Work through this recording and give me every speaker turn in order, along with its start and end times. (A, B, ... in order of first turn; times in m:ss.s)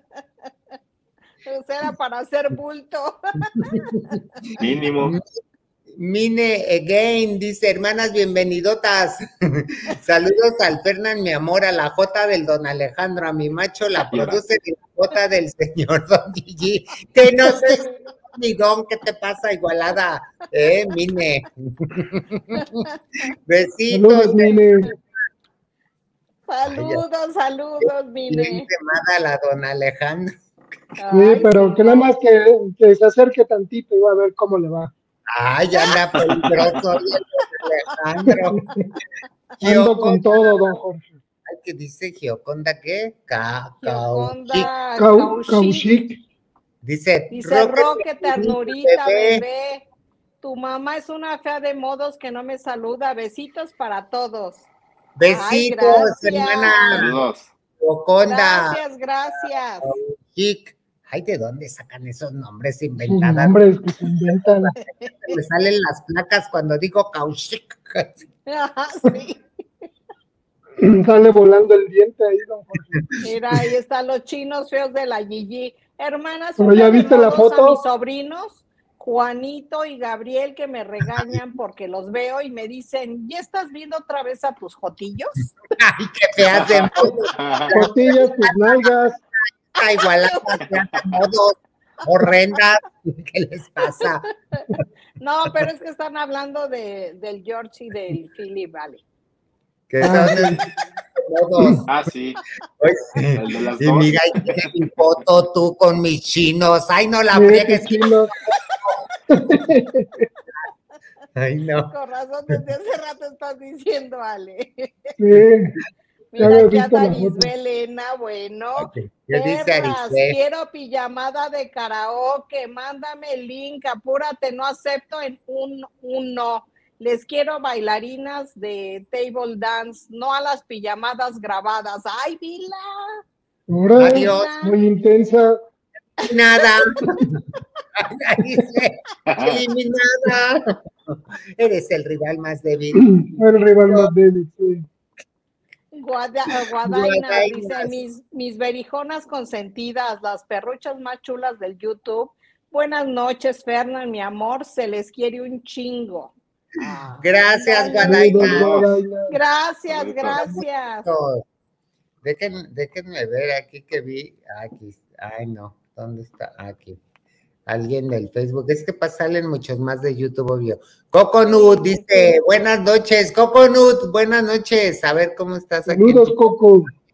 0:01.4-0:04.2 A
0:03.7-0:04.1 B
0:04.6-0:05.2 C
0:06.0-0:22.8 B
0:14.0-0:14.4 C
0:17.6-0:18.0 A
0:22.6-0:22.9 A
0:23.5-0:24.9 B
0:23.9-0:24.9 D
0:26.5-0:28.7 A
0:26.7-0:27.0 B
0:27.8-0:30.4 B
0:31.0-0:32.1 A
0:31.1-0:34.9 D
0:35.3-0:38.6 B
0:35.8-0:36.8 A
0:38.5-0:38.8 D
0:39.6-0:40.7 B
0:39.6-0:41.2 D
0:41.5-0:44.7 B
0:43.8-0:46.0 A
0:45.0-0:46.2 D
0:46.8-0:49.4 B
0:47.3-0:49.8 A
0:50.4-0:54.7 A
0:55.2-0:57.2 B
0:55.3-0:57.2 A
0:56.6-0:57.5 C
0:57.8-0:58.8 B
0:58.2-1:00.0 A
0:59.8-1:03.6 B
1:03.1-1:04.7 D
1:04.7-1:05.4 A
1:05.2-1:08.2 B
1:08.5-1:09.4 A
1:10.8-1:13.0 D
1:13.2-1:25.3 A
1:16.6-1:17.8 D
1:25.8-1:28.9 B
1:26.5-1:27.9 C
1:27.7-1:29.2 D
1:29.8-1:34.3 B
1:33.8-1:34.7 A
1:35.2-1:39.0 A
1:39.9-1:41.9 B
1:40.0-1:40.6 D
1:41.8-1:42.4 C
1:42.8-1:48.1 B
1:43.4-1:44.2 C
1:47.3-1:48.3 D
1:49.3-1:50.1 D
1:51.4-1:51.9 B
1:51.9-1:55.1 A
1:55.2-1:55.8 D
1:56.3-2:13.2 A
1:56.4-1:57.5 D
1:58.8-2:00.4 B
2:13.7-2:15.6 D
2:14.0-2:14.6 B
2:14.2-2:14.8 A
2:16.2-2:17.4 B
2:18.0-2:24.1 B
2:19.3-2:19.6 C
2:23.0-2:24.8 D
2:25.9-2:38.7 A
2:26.8-2:28.0 B
2:37.2-2:38.9 B
2:38.0-2:39.4 D
2:39.3-2:41.1 A
2:39.9-2:40.4 C
2:40.3-2:41.4 B
2:42.2-2:47.0 B
2:47.7-2:56.4 B
2:51.4-2:52.4 A
2:55.9-2:56.9 D